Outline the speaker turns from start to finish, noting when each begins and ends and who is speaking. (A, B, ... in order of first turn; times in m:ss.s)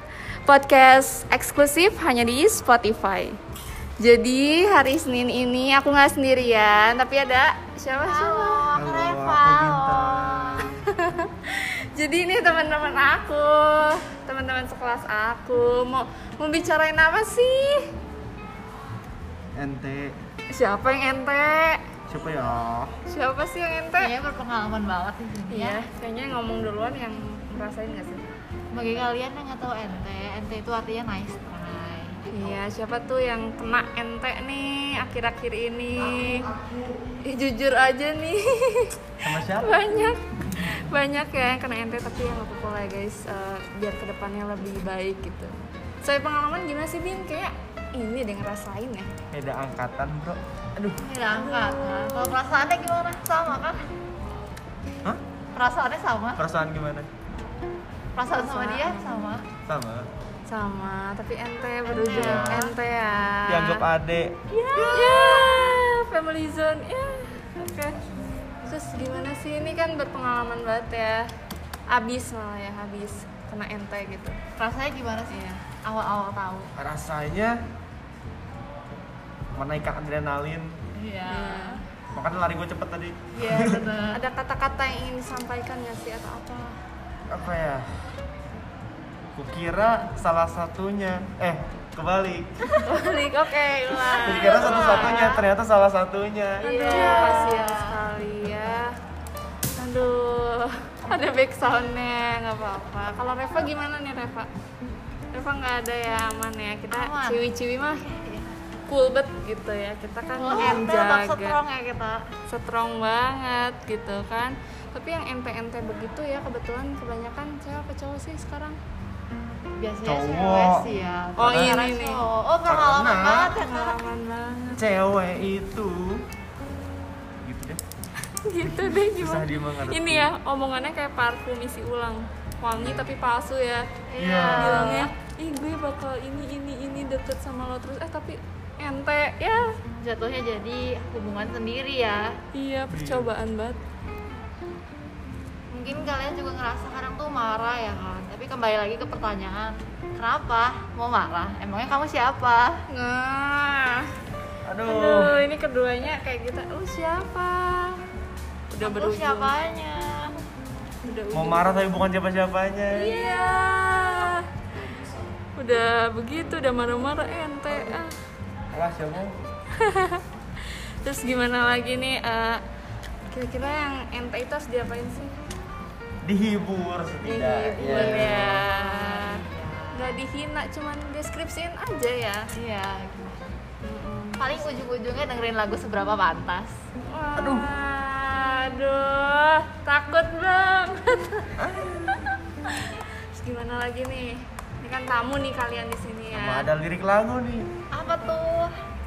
0:00.4-0:03.4 A
0:04.0-0:08.7 A
0:08.0-0:10.7 B
0:08.7-0:10.8 C
0:10.8-0:17.9 A
0:19.5-0:20.2 C
0:20.5-0:21.8 A
0:22.1-0:22.9 C
0:23.1-0:24.1 A
0:24.0-0:25.8 B
0:25.5-0:28.2 A
0:28.7-0:32.6 B
0:32.3-0:36.5 A
0:37.2-0:49.1 A
0:39.2-0:39.8 C
0:49.3-0:51.0 C
0:51.0-0:53.8 B
0:51.4-0:52.4 A
0:55.5-0:56.4 B
0:56.4-0:57.1 C
0:58.1-0:59.5 B
0:58.3-0:59.2 A
0:59.6-1:00.1 C
1:00.5-1:03.8 A
1:01.8-1:02.8 B
1:02.2-1:02.6 C
1:03.4-1:04.3 C
1:04.5-1:08.0 A
1:04.6-1:05.8 B
1:08.6-1:11.3 A
1:11.9-1:14.4 A
1:14.6-1:16.7 B
1:15.3-1:15.6 A
1:16.8-1:17.6 C
1:19.5-1:20.8 C
1:20.9-1:21.8 B
1:21.3-1:21.8 A
1:22.1-1:23.8 C
1:23.3-1:24.2 B
1:24.1-1:26.8 A
1:27.3-1:27.9 C
1:29.3-1:32.5 C
1:32.8-1:35.4 A
1:34.1-1:35.4 B
1:34.2-1:36.7 C
1:36.6-1:38.9 A
1:36.6-1:38.0 B
1:39.8-1:44.5 A
1:45.3-1:48.1 A
1:46.9-1:47.4 B
1:48.0-1:48.6 B
1:48.9-1:51.6 A
1:50.4-1:52.2 B
1:52.5-1:58.8 A
1:59.8-2:04.0 B
2:00.0-2:01.8 C
2:01.4-2:02.2 A
2:02.7-2:03.6 C
2:03.5-2:04.8 A
2:04.7-2:06.2 C
2:07.4-2:07.8 C
2:08.4-2:13.9 A
2:08.6-2:10.3 C
2:12.7-2:13.1 C
2:14.1-2:15.1 B
2:14.2-2:15.1 C
2:14.5-2:19.8 A
2:20.0-2:22.4 B
2:22.5-2:23.8 A
2:22.9-2:23.3 C
2:25.7-2:32.8 B
2:32.9-2:34.1 A
2:34.6-2:35.3 C
2:34.8-2:38.0 A
2:38.7-2:39.5 A
2:38.8-2:40.4 B
2:41.0-2:41.8 A
2:41.3-2:43.2 C
2:42.9-2:44.4 A
2:45.6-2:48.1 A
2:48.7-2:49.4 C
2:49.8-2:50.2 A
2:51.0-2:52.6 A
2:53.3-2:55.4 A
2:56.2-2:58.6 C
2:57.2-2:59.4 A
2:57.8-3:00.2 B
2:59.9-3:02.4 A
3:02.5-3:03.5 B
3:03.8-3:04.5 A
3:04.4-3:06.8 B
3:07.0-3:11.5 A
3:07.4-3:07.7 C
3:11.6-3:12.3 C
3:12.1-3:16.7 A
3:16.3-3:17.7 C
3:17.9-3:18.7 B